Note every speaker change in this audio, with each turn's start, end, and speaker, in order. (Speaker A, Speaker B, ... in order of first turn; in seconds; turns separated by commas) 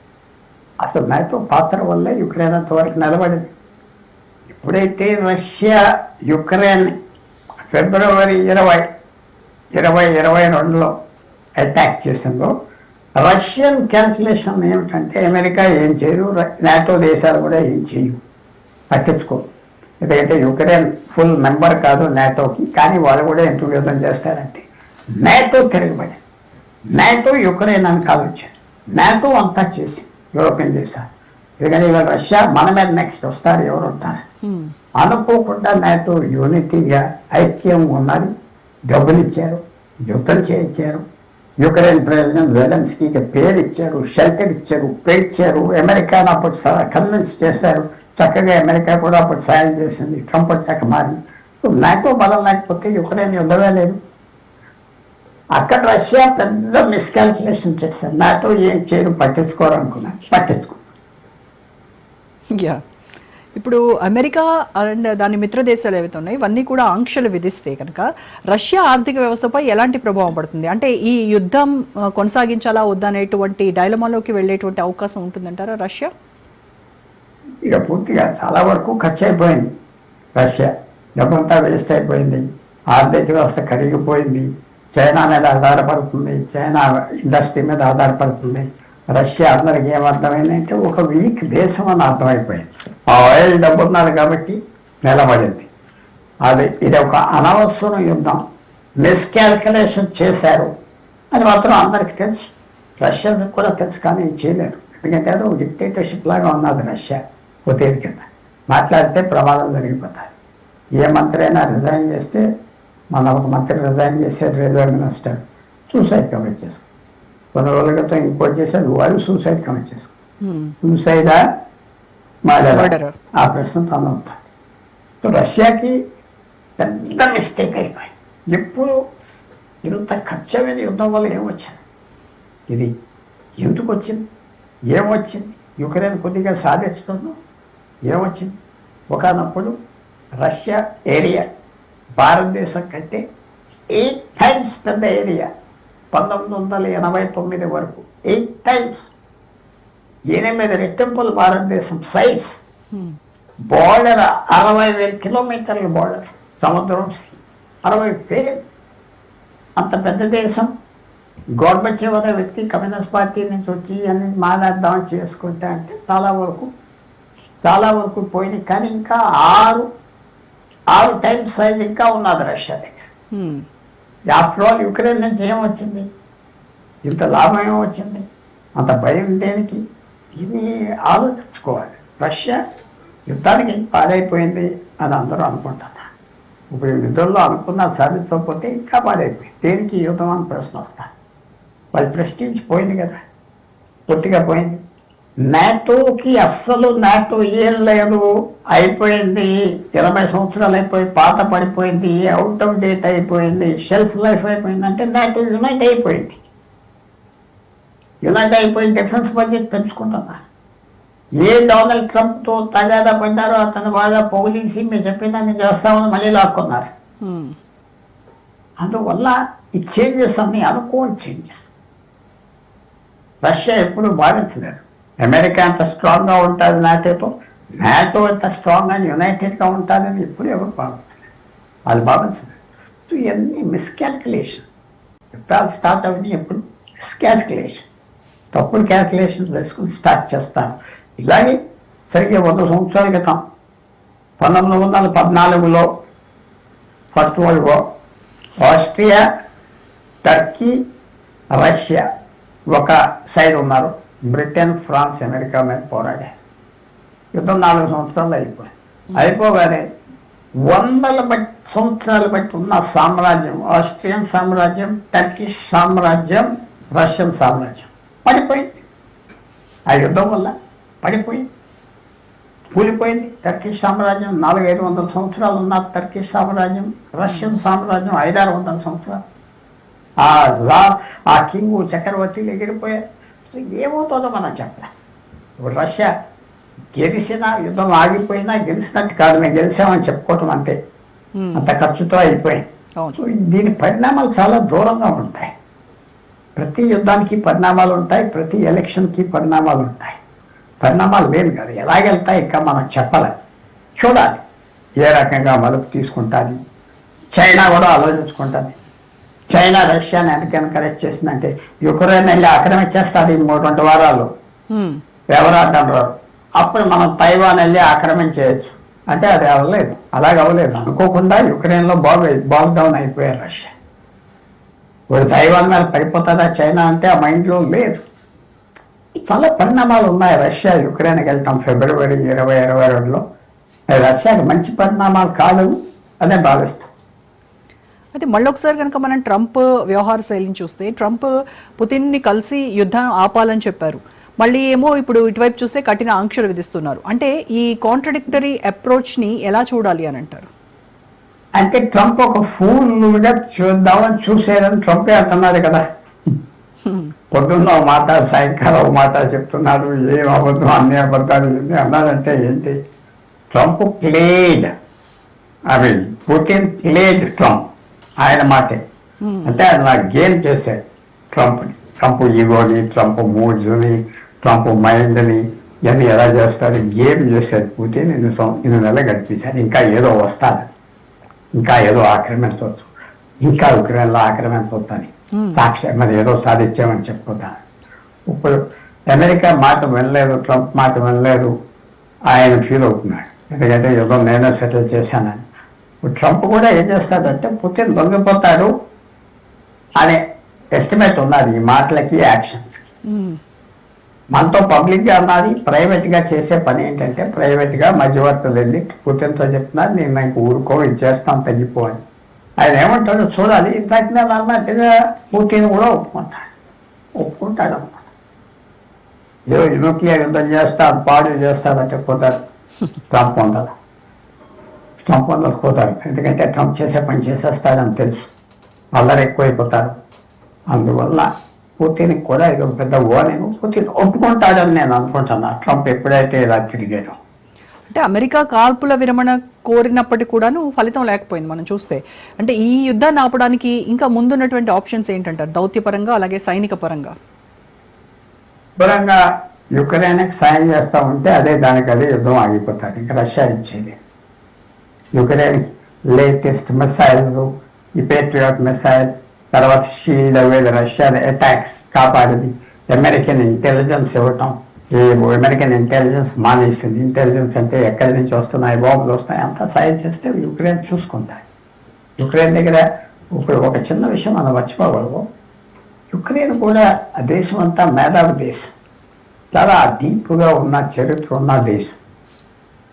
Speaker A: 0.8-3.5, Speaker A: 4.5-5.8, Speaker A: 6.3-6.9, Speaker A: 7.7-8.8, Speaker A: 9.8-10.9, Speaker A: 11.6-12.5, Speaker A: 13.2-18.2, Speaker A: 18.9-19.4, Speaker A: 20.0-24.7, Speaker A: 25.2-26.2, Speaker A: 26.9-31.1, Speaker A: 31.6-34.2, Speaker B: 34.4-34.7, Speaker A: 35.0-38.3, Speaker A: 38.9-41.0, Speaker A: 41.6-54.0, Speaker A: 55.5-60.8, Speaker B: 62.5-62.8, Speaker B: 63.5-76.1, Speaker A: 77.6-79.7, Speaker A: 80.3-82.4, Speaker A: 82.9-95.7, Speaker A: 96.5-98.4, Speaker A: 99.0-100.7, Speaker A: 101.3-110.3, Speaker A: 111.0-112.4, Speaker A: 113.1-116.8, Speaker A: 117.5-120.1, Speaker B: 120.4-120.7, Speaker A: 120.8-121.4, Speaker A: 122.5-124.4, Speaker B: 122.7-123.1, Speaker A: 125.2-126.0, Speaker A: 126.8-129.0, Speaker A: 129.8-131.8, Speaker A: 133.6-134.2, Speaker A: 134.9-137.3, Speaker A: 138.1-138.5, Speaker A: 139.1-139.7, Speaker A: 140.4-141.4, Speaker A: 142.2-143.2, Speaker A: 143.9-145.5, Speaker A: 146.1-149.1, Speaker A: 150.3-152.6, Speaker A: 153.7-158.6, Speaker A: 159.8-160.7, Speaker A: 161.6-166.7, Speaker A: 167.6-169.8, Speaker A: 170.9-173.1, Speaker B: 173.3-173.6, Speaker A: 174.3-176.1, Speaker A: 177.0-178.3, Speaker A: 178.8-179.8, Speaker A: 180.3-182.6, Speaker A: 183.3-186.1, Speaker A: 186.7-191.1, Speaker A: 191.9-193.2, Speaker A: 194.1-194.8, Speaker A: 195.4-206.4, Speaker A: 208.2-210.4, Speaker A: 211.4-216.9, Speaker B: 217.2-217.6, Speaker A: 218.8-221.7, Speaker A: 223.4-231.2, Speaker A: 231.9-232.5, Speaker A: 233.1-234.7, Speaker A: 235.3-237.9, Speaker A: 238.5-241.6, Speaker A: 242.1-243.4, Speaker A: 244.4-245.8, Speaker A: 247.1-247.8, Speaker A: 248.6-249.2, Speaker A: 250.2-250.8, Speaker A: 251.5-252.0, Speaker A: 252.7-256.3, Speaker A: 257.3-259.8, Speaker A: 260.6-268.7, Speaker A: 269.9-270.5, Speaker A: 271.0-271.4, Speaker A: 272.7-279.2, Speaker A: 280.2-284.9, Speaker A: 285.6-286.1, Speaker A: 286.9-290.7, Speaker B: 291.4-291.7, Speaker A: 291.5-292.6, Speaker A: 293.1-295.5, Speaker A: 296.6-300.2, Speaker A: 300.8-303.3, Speaker A: 304.0-304.4, Speaker A: 305.0-306.6, Speaker A: 307.3-308.8, Speaker A: 309.5-314.3, Speaker B: 314.7-315.0, Speaker A: 315.3-323.7, Speaker A: 325.1-328.0, Speaker A: 329.3-333.2, Speaker A: 333.9-336.9, Speaker B: 338.1-350.5, Speaker A: 351.6-355.8, Speaker B: 356.9-357.1, Speaker A: 357.3-362.8, Speaker A: 363.5-364.7, Speaker A: 365.7-367.6, Speaker A: 368.2-368.8, Speaker B: 369.2-369.6, Speaker A: 369.4-370.8, Speaker A: 371.3-380.7, Speaker A: 381.6-382.9, Speaker A: 383.4-387.6, Speaker B: 385.3-385.6, Speaker A: 388.3-388.6, Speaker A: 389.1-391.5, Speaker A: 392.3-395.4, Speaker A: 396.0-398.7, Speaker A: 400.8-402.8, Speaker B: 403.1-403.4, Speaker A: 404.3-412.0, Speaker A: 412.6-416.5, Speaker A: 417.2-418.1, Speaker A: 419.5-422.4, Speaker A: 423.1-423.7, Speaker A: 425.0-428.3, Speaker A: 428.9-430.0, Speaker A: 430.7-431.3, Speaker A: 431.8-437.2, Speaker B: 437.9-447.1, Speaker A: 448.8-449.2, Speaker A: 449.8-454.0, Speaker A: 455.1-455.6, Speaker A: 456.1-471.4, Speaker A: 472.2-475.2, Speaker A: 476.1-478.7, Speaker A: 479.5-482.0